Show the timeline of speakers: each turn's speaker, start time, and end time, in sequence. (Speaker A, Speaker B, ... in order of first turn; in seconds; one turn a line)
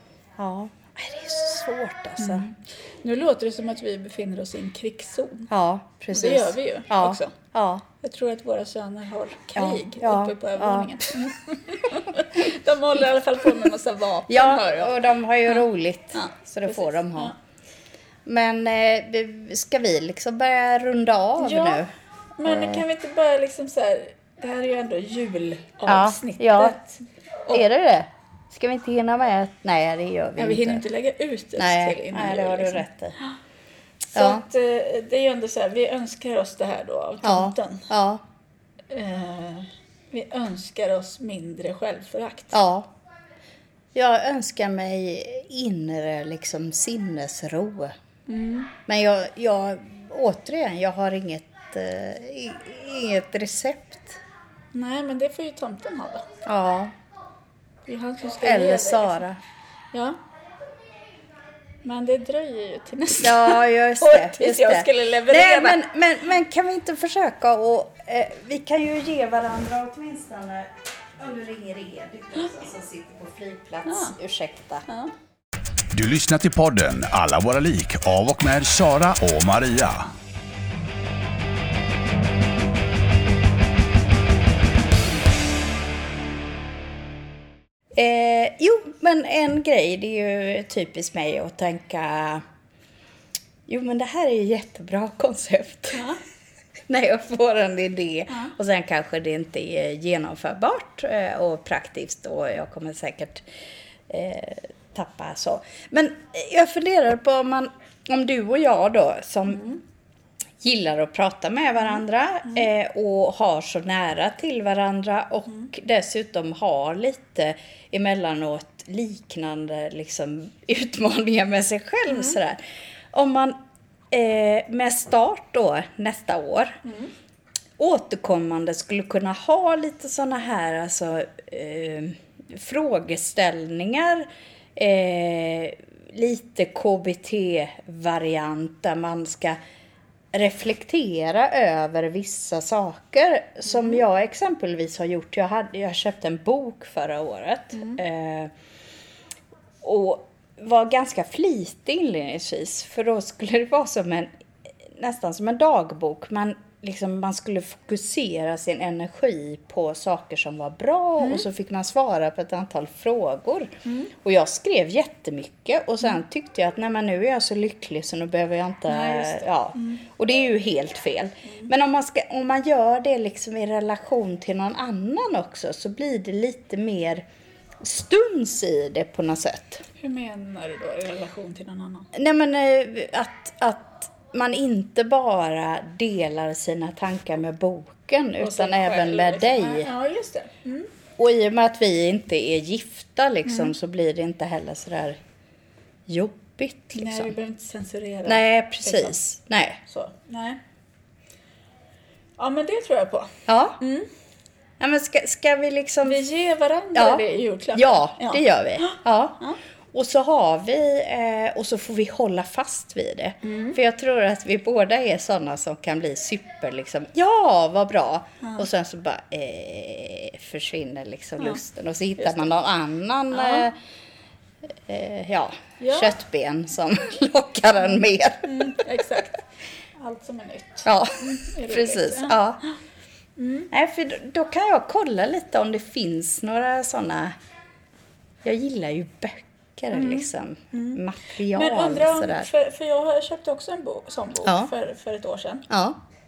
Speaker A: 0.4-2.5
Speaker B: 2.2-5.5
Speaker A: 5.5-7.9
Speaker B: 6.1-7.4
Speaker B: 8.0-15.0
Speaker A: 9.6-11.3
Speaker A: 14.3-17.4
Speaker B: 15.5-17.4
Speaker A: 18.2-21.9
Speaker B: 21.4-21.8
Speaker B: 22.4-27.6
Speaker A: 22.4-22.8
Speaker A: 25.9-26.8
Speaker A: 27.5-30.8
Speaker B: 30.4-33.4
Speaker A: 31.6-33.2
Speaker B: 34.1-37.9
Speaker A: 34.1-34.5
Speaker A: 37.2-38.2
Speaker B: 38.9-42.6
Speaker A: 42.5-42.9
Speaker A: 43.9-48.0
Speaker B: 48.3-48.7
Speaker A: 48.9-54.2
Speaker B: 54.7-56.3
Speaker A: 56.5-57.0
Speaker B: 57.9-59.2
Speaker A: 58.4-59.4
Speaker B: 59.9-60.2
Speaker B: 61.8-65.8
Speaker A: 63.2-74.9
Speaker B: 73.8-74.2
Speaker B: 74.9-75.1
Speaker C: 75.9-80.1
Speaker A: 87.9-92.5
Speaker A: 93.7-96.1
Speaker B: 95.9-96.2
Speaker A: 96.9-109.8
Speaker B: 98.3-98.5
Speaker A: 110.6-123.6
Speaker B: 122.1-122.4
Speaker A: 124.1-126.8
Speaker B: 126.8-127.1
Speaker A: 127.8-139.6
Speaker A: 140.3-148.5
Speaker A: 149.8-177.2
Speaker B: 161.2-161.5
Speaker B: 163.8-164.1
Speaker B: 168.9-170.1
Speaker A: 177.8-179.8
Speaker B: 180.0-182.1
Speaker A: 182.1-189.9
Speaker B: 188.4-190.9
Speaker A: 191.2-195.2
Speaker B: 193.5-193.7
Speaker A: 196.1-197.3
Speaker B: 196.9-199.2
Speaker A: 198.3-199.8
Speaker B: 199.8-200.6
Speaker B: 202.4-204.1
Speaker A: 203.5-203.8
Speaker A: 204.8-206.2
Speaker B: 206.0-209.6
Speaker A: 206.9-223.8
Speaker B: 213.4-213.8
Speaker B: 222.2-222.5
Speaker B: 223.3-223.7
Speaker A: 224.8-229.2
Speaker B: 225.8-226.2
Speaker B: 228.4-229.4
Speaker B: 229.9-232.8
Speaker A: 230.8-232.6
Speaker B: 233.4-233.7
Speaker A: 233.7-237.4
Speaker A: 238.4-242.5
Speaker B: 239.9-245.7
Speaker A: 244.4-244.7
Speaker A: 245.7-246.0